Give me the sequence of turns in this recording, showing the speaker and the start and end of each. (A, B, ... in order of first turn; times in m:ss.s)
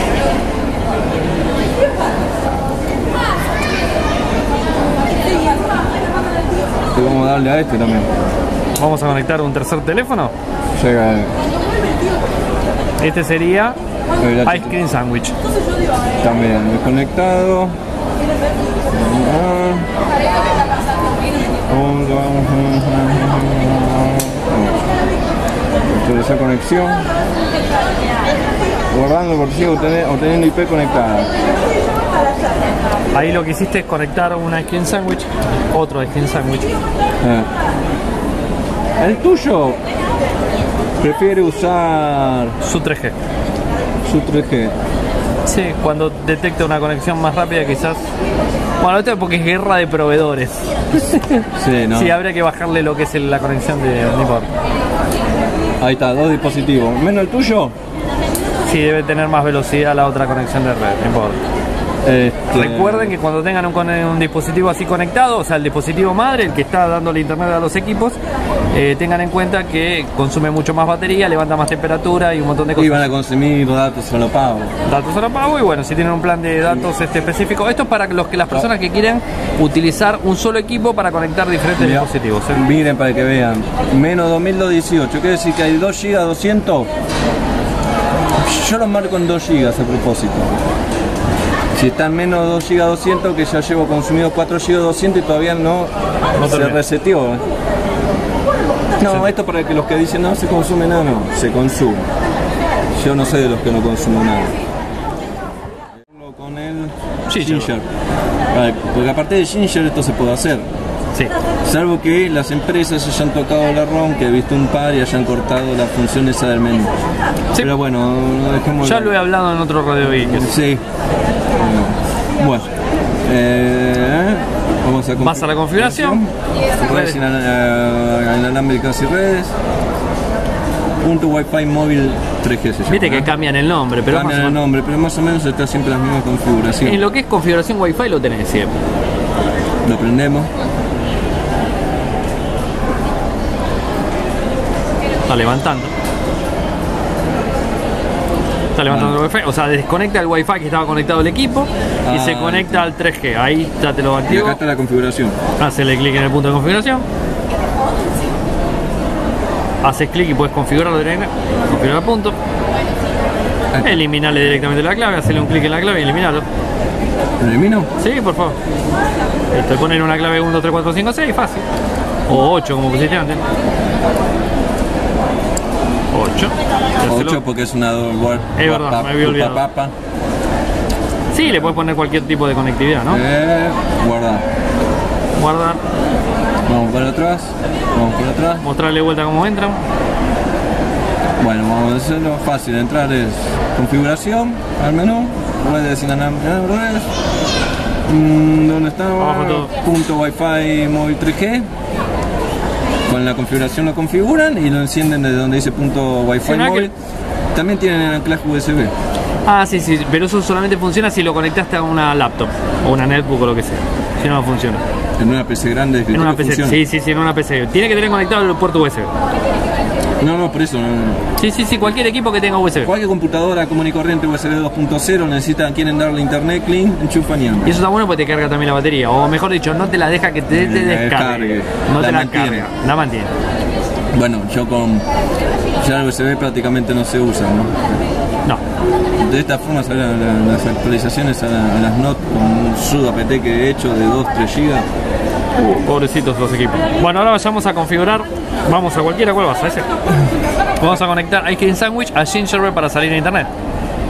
0:06.9-0:08.2 A
0:08.8-0:10.3 B
0:10.8-0:11.3 A
0:13.0-0:13.8 B
0:14.2-0:14.8 A
0:14.4-0:15.3 B
0:16.2-0:17.7 A
0:18.9-0:19.9 A
0:21.7-0:24.9 A
0:25.9-0:27.1 A
0:28.9-0:31.3 A
0:33.1-0:36.8 B
0:37.2-0:37.5 A
0:39.0-0:39.8 A
0:41.0-0:42.6 A
0:42.6-0:43.2 B
0:44.0-0:44.8 A
0:45.4-0:48.0 B
0:48.8-0:54.5 B
0:51.6-0:52.2 A
0:55.8-0:57.7 A
0:58.6-1:01.4 B
1:02.0-1:03.1 A
1:02.5-1:08.2 B
1:08.7-1:13.0 B
1:12.8-1:14.7 A
1:14.8-1:22.6 B
1:21.8-1:26.9 A
1:28.4-1:30.6 A
1:31.7-1:37.4 A
1:36.4-1:36.8 B
1:39.0-1:42.1 A
1:43.0-1:44.5 A
1:46.1-1:47.9 A
1:47.3-1:47.7 B
1:48.5-1:50.7 A
1:51.6-1:56.9 A
1:57.6-1:59.2 A
1:58.8-2:00.5 B
2:00.2-2:00.8 A
2:01.5-2:02.7 A
2:03.2-2:09.5 A
2:05.2-2:06.2 B
2:06.8-2:07.2 B
2:11.0-2:13.3 A
2:12.9-2:14.6 B
2:14.1-2:17.0 A
2:16.8-2:18.7 B
2:19.8-2:20.5 A
2:25.3-2:25.9 B
2:28.7-2:34.6 B
2:28.9-2:29.2 A
2:32.0-2:32.9 A
2:34.3-2:35.4 A
2:35.6-2:37.0 B
2:39.8-2:42.4 B
2:43.7-2:44.0 A
2:43.8-2:46.4 B
2:47.4-2:47.9 A
2:48.0-2:48.6 B
2:49.5-2:51.6 B
2:52.3-2:53.4 B
2:56.1-2:57.4 B
2:57.0-2:59.9 A
2:58.6-2:59.6 B
3:01.3-3:03.2 B
3:01.4-3:01.8 A
3:03.1-3:04.4 A
3:05.4-3:05.8 B
3:06.6-3:08.6 A
3:08.6-3:09.8 B
3:11.4-3:17.1 A
3:18.0-3:21.7 A
3:19.2-3:19.7 B
3:23.1-3:26.9 A
3:26.4-3:26.9 B
3:27.5-3:28.9 A
3:29.4-3:34.8 B
3:35.2-3:36.8 A
3:36.1-3:39.1 B
3:40.2-3:41.2 A
3:41.4-3:42.9 B
3:42.8-3:47.8 A
3:47.6-3:53.3 B
3:50.5-3:52.7 A
3:54.1-3:55.0 A
3:55.8-3:58.0 A
3:59.2-4:04.9 A
4:05.7-4:09.9 B
4:10.8-4:13.5 B